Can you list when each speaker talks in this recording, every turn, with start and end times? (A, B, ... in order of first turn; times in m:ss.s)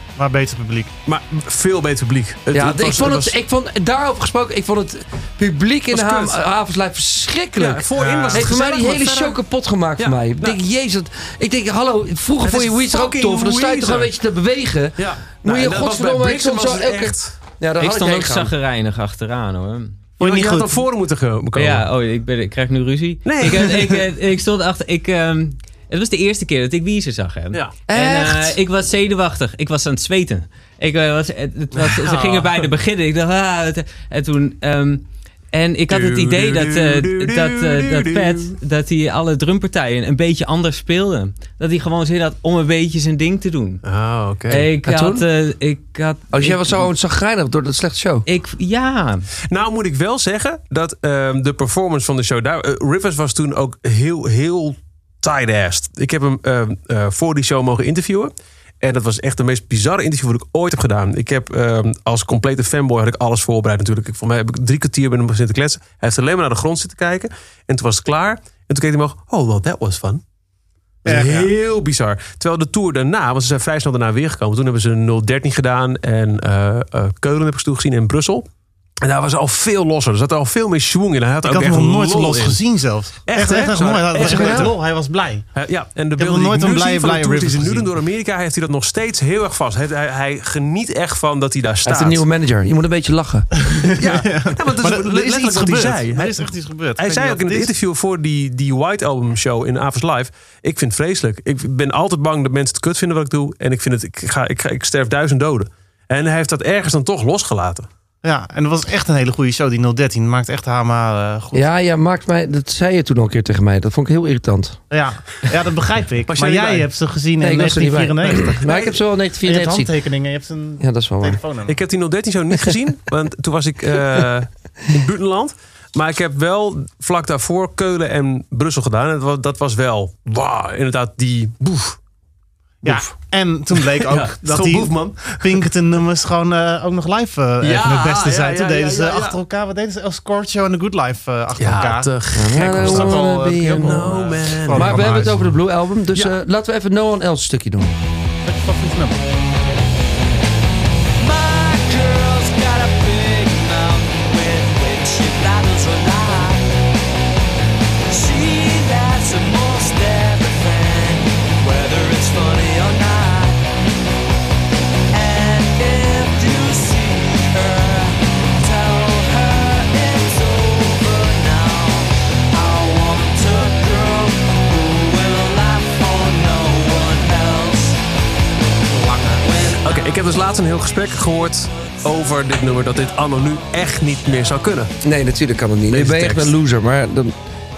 0:00.2-0:00.9 A
0:01.1-0:03.3 B
0:02.5-0:18.5 C
0:05.9-0:06.4 B
0:07.6-0:09.4 B
0:08.0-0:08.5 A
0:10.0-0:10.6 B
0:12.4-0:14.1 B
0:15.0-0:17.4 B
0:17.8-0:20.0 D
0:20.2-0:20.8 A
0:20.2-0:21.9 B
0:21.6-0:43.8 D
0:23.2-0:24.0 B
0:27.9-0:28.6 C
0:31.8-0:32.5 B
0:35.9-0:38.5 B
0:43.8-0:44.6 B
0:44.5-0:46.9 D
0:44.5-0:45.2 C
0:46.3-0:48.3 C
0:48.3-0:49.3 D
0:49.5-1:10.2 B
1:11.0-1:18.5 B
1:11.1-1:11.5 A
1:19.0-1:22.6 B
1:21.5-1:25.5 A
1:23.3-1:24.7 B
1:24.2-1:24.7 C
1:25.6-1:32.2 B
1:26.2-1:27.9 A
1:31.8-1:33.5 C
1:33.8-1:37.7 A
1:34.0-1:47.9 B
1:48.2-1:51.7 A
1:51.5-1:54.8 C
1:54.9-1:58.6 A
1:56.3-1:56.9 B
1:57.4-1:59.9 C
1:58.3-1:59.0 B
1:59.4-2:01.8 A
2:00.8-2:01.4 C
2:01.7-2:12.0 B
2:12.8-2:25.5 A
2:12.8-2:13.1 B
2:13.7-2:15.7 B
2:17.6-2:19.4 B
2:21.6-2:25.3 B
2:22.3-2:27.9 C
2:28.4-2:29.2 A
2:31.2-2:36.8 E
2:38.1-2:43.7 E
2:45.1-2:58.0 E
2:59.1-2:59.4 C
2:59.3-3:00.0 E
2:59.7-3:04.9 B
3:05.0-3:07.4 C
3:05.9-3:06.5 B